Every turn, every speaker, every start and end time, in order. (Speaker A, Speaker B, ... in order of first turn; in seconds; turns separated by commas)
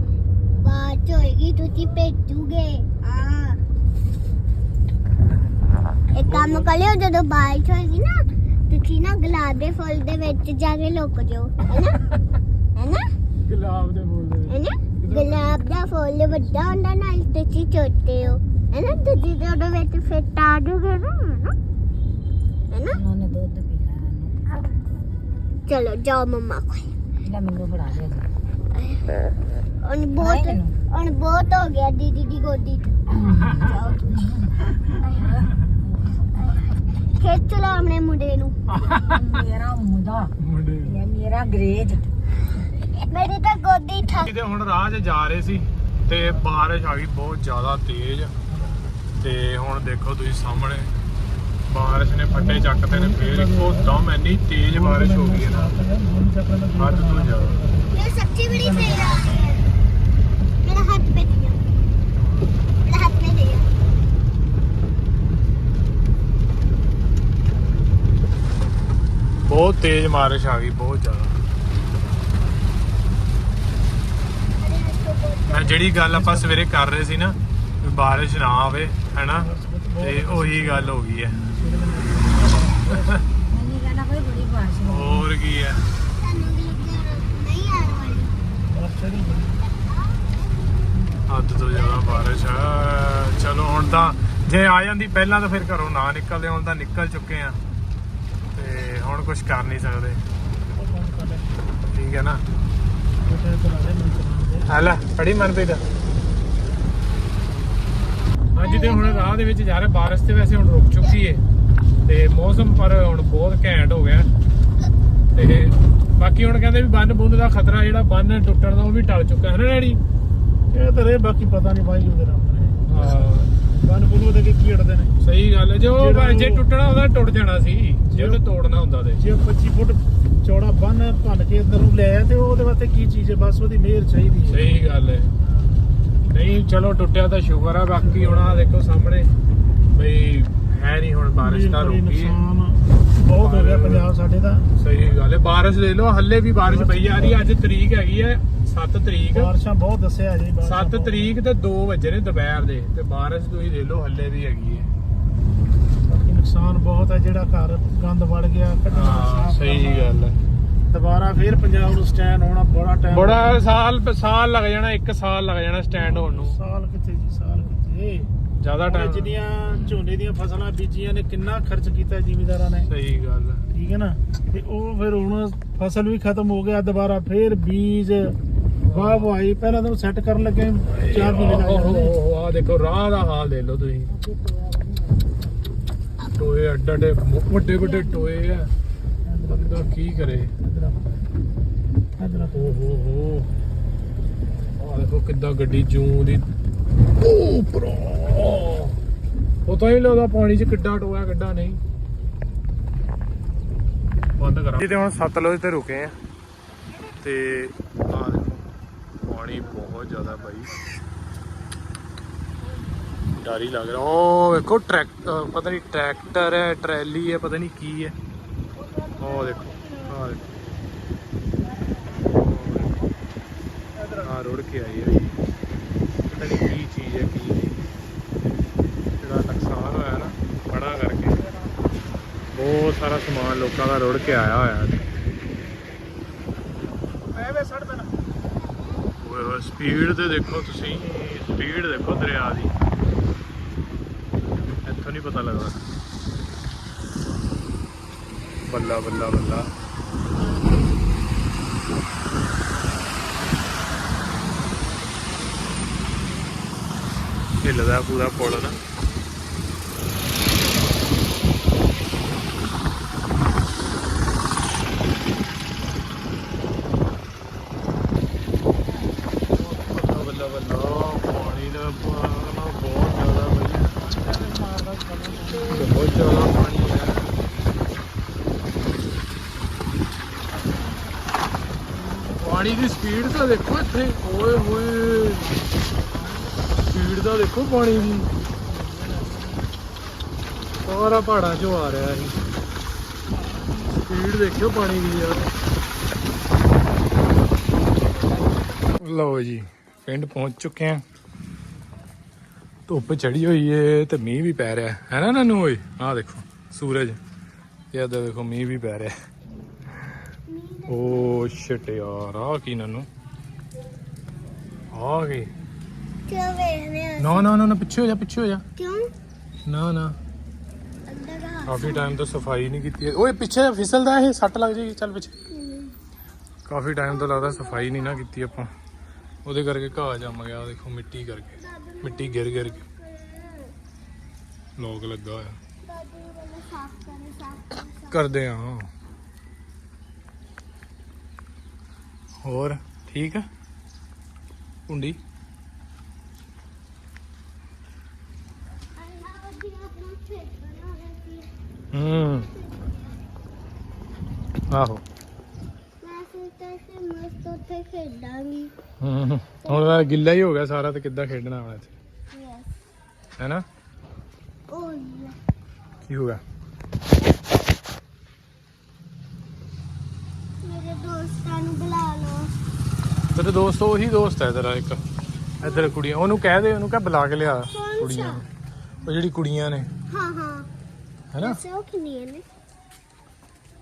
Speaker A: 0.6-3.6, Speaker A: 6.1-12.1, Speaker B: 6.2-6.7, Speaker A: 12.8-13.1, Speaker B: 13.5-15.6, Speaker A: 14.5-21.5, Speaker A: 22.7-23.0, Speaker C: 22.9-24.5, Speaker A: 25.7-26.9, Speaker C: 27.3-28.3, Speaker A: 28.8-29.1, Speaker A: 29.8-34.2, Speaker C: 30.2-30.8, Speaker C: 33.2-33.6, Speaker C: 34.2-34.5, Speaker C: 35.1-36.2, Speaker A: 37.1-39.2, Speaker B: 38.7-39.2, Speaker C: 39.0-40.3, Speaker B: 40.4-41.0, Speaker C: 40.8-42.0, Speaker A: 43.0-44.3, Speaker B: 44.1-48.3, Speaker B: 49.2-50.9, Speaker B: 51.7-55.7, Speaker D: 52.3-54.0, Speaker D: 54.7-58.0, Speaker B: 56.8-57.6, Speaker A: 57.9-59.6, Speaker D: 58.5-59.1, Speaker A: 60.6-61.6, Speaker A: 62.9-63.7, Speaker B: 69.4-71.3, Speaker A: 74.6-75.8, Speaker B: 75.5-81.4, Speaker D: 76.1-76.5, Speaker D: 79.4-81.0, Speaker D: 81.5-83.2, Speaker C: 83.5-85.3, Speaker B: 84.8-85.8, Speaker A: 86.1-88.4, Speaker D: 88.7-89.6, Speaker A: 89.7-90.2, Speaker B: 91.3-97.6, Speaker A: 91.7-92.4, Speaker B: 98.5-100.2, Speaker D: 100.8-101.6, Speaker B: 101.9-102.4, Speaker D: 103.2-104.7, Speaker B: 104.7-105.8, Speaker B: 108.5-111.4, Speaker A: 108.6-109.3, Speaker B: 112.0-114.3, Speaker B: 115.3-120.0, Speaker D: 120.7-125.1, Speaker B: 122.9-123.5, Speaker B: 125.2-129.2, Speaker D: 125.9-126.6, Speaker D: 128.1-128.4, Speaker D: 129.2-134.7, Speaker B: 134.5-135.3, Speaker D: 135.4-135.8, Speaker B: 136.3-139.3, Speaker B: 139.9-142.4, Speaker D: 141.4-144.7, Speaker B: 143.3-144.1, Speaker B: 144.8-149.5, Speaker D: 146.7-147.4, Speaker D: 149.3-151.3, Speaker B: 150.6-154.9, Speaker D: 156.1-160.2, Speaker B: 158.9-160.4, Speaker D: 160.9-163.6, Speaker B: 163.1-166.6, Speaker D: 165.9-168.3, Speaker B: 168.6-170.0, Speaker D: 168.9-172.9, Speaker B: 172.8-173.6, Speaker D: 173.7-178.4, Speaker B: 178.8-179.3, Speaker D: 178.9-182.2, Speaker B: 180.9-184.1, Speaker C: 184.1-185.6, Speaker B: 186.3-188.7, Speaker C: 187.9-188.2, Speaker D: 189.3-189.8, Speaker B: 189.5-190.5, Speaker D: 190.6-191.0, Speaker D: 192.2-192.6, Speaker B: 192.6-193.5, Speaker B: 194.8-196.4, Speaker B: 197.2-199.0, Speaker B: 199.7-201.8, Speaker B: 204.4-206.2, Speaker B: 207.2-208.7, Speaker B: 209.2-210.9, Speaker B: 213.4-218.2, Speaker A: 219.0-220.1, Speaker B: 219.2-220.4, Speaker B: 222.4-222.9, Speaker B: 224.2-225.4, Speaker B: 226.3-227.8, Speaker B: 229.2-231.4, Speaker B: 232.5-235.0, Speaker D: 237.3-238.1, Speaker B: 239.2-242.7, Speaker B: 244.8-245.8, Speaker B: 248.7-249.7, Speaker B: 257.6-258.8, Speaker B: 269.5-273.9, Speaker D: 274.0-275.9, Speaker B: 275.6-277.3, Speaker B: 282.4-285.5, Speaker D: 285.2-285.5, Speaker B: 286.9-288.3, Speaker D: 288.7-289.7, Speaker B: 290.9-292.5, Speaker D: 293.3-294.0, Speaker B: 294.0-295.5, Speaker B: 299.0-301.0, Speaker B: 302.9-307.2, Speaker B: 307.9-309.1, Speaker A: 310.5-311.3, Speaker B: 310.9-313.1, Speaker B: 314.9-315.5, Speaker A: 316.3-317.5, Speaker B: 317.2-318.6, Speaker A: 318.8-319.1, Speaker B: 319.7-320.2, Speaker A: 321.1-322.1, Speaker B: 321.7-325.4, Speaker A: 325.5-325.9, Speaker B: 326.7-328.7, Speaker A: 327.0-328.3, Speaker B: 329.4-332.8, Speaker A: 331.6-333.7, Speaker B: 334.8-335.6, Speaker A: 335.8-338.4, Speaker B: 338.1-338.9, Speaker B: 342.4-343.5, Speaker B: 344.9-345.2, Speaker A: 349.0-353.1, Speaker B: 351.9-352.5, Speaker B: 354.7-355.0, Speaker A: 356.0-358.7, Speaker B: 359.0-361.9, Speaker A: 359.6-360.1, Speaker A: 362.3-362.7, Speaker B: 363.4-363.6, Speaker A: 364.7-365.4, Speaker B: 366.1-366.4, Speaker A: 370.6-372.5, Speaker B: 373.3-375.0, Speaker B: 375.6-378.4, Speaker A: 375.6-375.9, Speaker A: 377.7-378.4, Speaker B: 379.1-379.9, Speaker A: 380.1-380.7, Speaker B: 381.3-381.6, Speaker A: 381.4-382.4